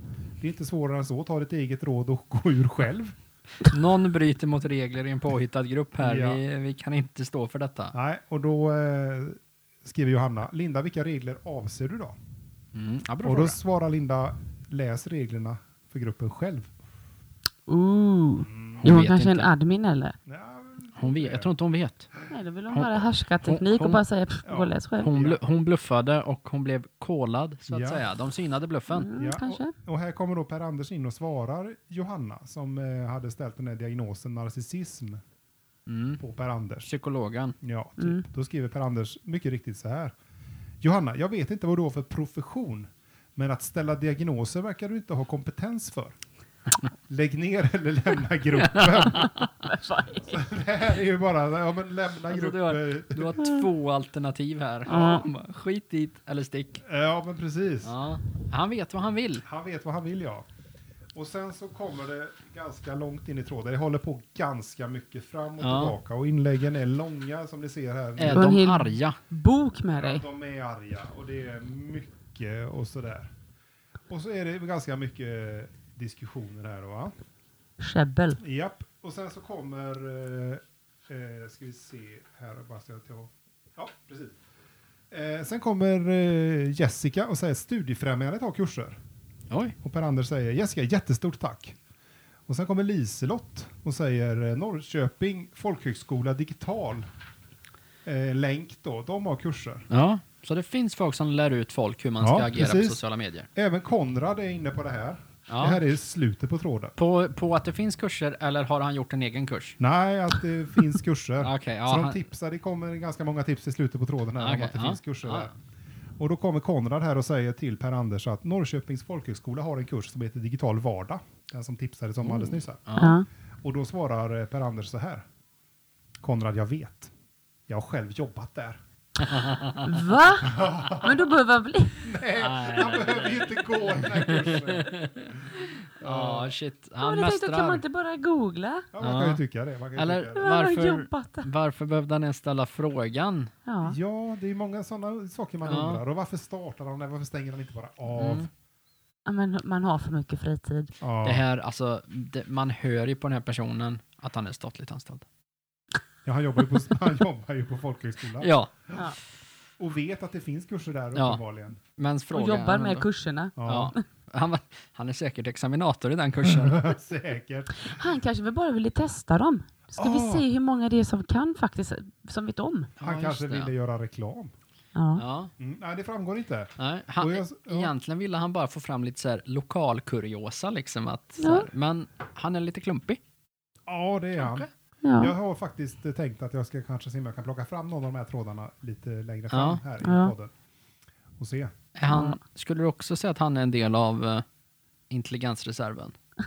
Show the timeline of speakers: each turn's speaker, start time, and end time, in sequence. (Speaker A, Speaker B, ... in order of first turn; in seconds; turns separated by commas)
Speaker A: 0.4-3.1, Speaker B: 3.6-7.9, Speaker A: 6.0-6.4, Speaker A: 7.9-12.2, Speaker B: 12.7-13.6, Speaker A: 13.2-16.7, Speaker C: 17.7-20.1, Speaker A: 18.4-18.9, Speaker B: 18.8-19.5, Speaker A: 20.2-21.5, Speaker B: 21.0-22.1, Speaker C: 22.3-25.1, Speaker B: 22.7-24.0, Speaker A: 24.4-25.4, Speaker B: 25.0-29.1, Speaker A: 27.7-28.0, Speaker C: 28.9-29.7, Speaker A: 29.1-35.2, Speaker B: 35.9-36.2, Speaker A: 36.2-36.9, Speaker B: 36.8-37.5, Speaker A: 37.6-40.1, Speaker C: 38.0-38.2, Speaker A: 40.8-46.2, Speaker A: 47.1-49.4, Speaker B: 48.6-49.5, Speaker C: 49.1-50.4, Speaker A: 50.2-53.6, Speaker B: 52.3-56.8, Speaker C: 54.9-55.2, Speaker A: 56.8-57.9, Speaker B: 57.8-59.5, Speaker A: 59.4-60.5, Speaker A: 61.1-68.5, Speaker B: 65.6-65.9, Speaker B: 68.2-69.2, Speaker C: 68.3-70.2, Speaker A: 69.9-73.3, Speaker A: 74.1-77.1, Speaker C: 77.8-78.4, Speaker A: 78.4-84.4, Speaker A: 85.1-89.0, Speaker B: 89.5-89.8, Speaker A: 89.8-91.8, Speaker A: 92.5-97.0, Speaker A: 98.0-99.8, Speaker B: 99.9-103.5, Speaker A: 102.2-103.0, Speaker A: 103.5-106.9, Speaker B: 105.5-105.8, Speaker B: 107.0-109.8, Speaker A: 109.8-115.5, Speaker B: 111.4-112.2, Speaker B: 114.4-115.5, Speaker A: 116.2-122.8, Speaker B: 122.2-123.2, Speaker C: 123.0-123.2, Speaker A: 123.6-125.2, Speaker A: 126.2-127.1, Speaker A: 127.7-128.8, Speaker B: 129.2-130.1, Speaker C: 129.8-132.0, Speaker A: 130.4-131.3, Speaker A: 132.0-136.5, Speaker B: 132.4-135.3, Speaker B: 136.0-137.8, Speaker C: 137.0-138.9, Speaker A: 138.9-140.6, Speaker B: 139.0-139.4, Speaker B: 139.9-143.5, Speaker C: 140.3-141.5, Speaker C: 143.7-143.9, Speaker A: 143.8-148.5, Speaker B: 145.7-146.0, Speaker B: 148.1-148.5, Speaker C: 149.2-150.9, Speaker A: 151.0-151.4, Speaker B: 151.2-155.2, Speaker A: 156.2-159.0, Speaker B: 158.4-158.7, Speaker A: 159.8-161.8, Speaker B: 161.1-161.4, Speaker B: 161.9-163.1, Speaker C: 162.3-164.0, Speaker A: 163.6-163.9, Speaker B: 163.6-166.9, Speaker A: 166.4-168.1, Speaker C: 167.7-172.9, Speaker A: 169.9-170.4, Speaker B: 173.0-173.7, Speaker A: 173.0-174.5, Speaker C: 174.9-175.2, Speaker B: 175.2-175.5, Speaker A: 175.6-177.9, Speaker B: 176.8-183.2, Speaker C: 181.4-181.7, Speaker A: 183.9-190.5, Speaker B: 184.4-184.7, Speaker C: 185.0-185.3, Speaker B: 189.5-189.8, Speaker C: 190.0-190.3, Speaker A: 191.4-191.7, Speaker B: 191.9-194.4, Speaker C: 192.1-192.4, Speaker B: 195.1-196.1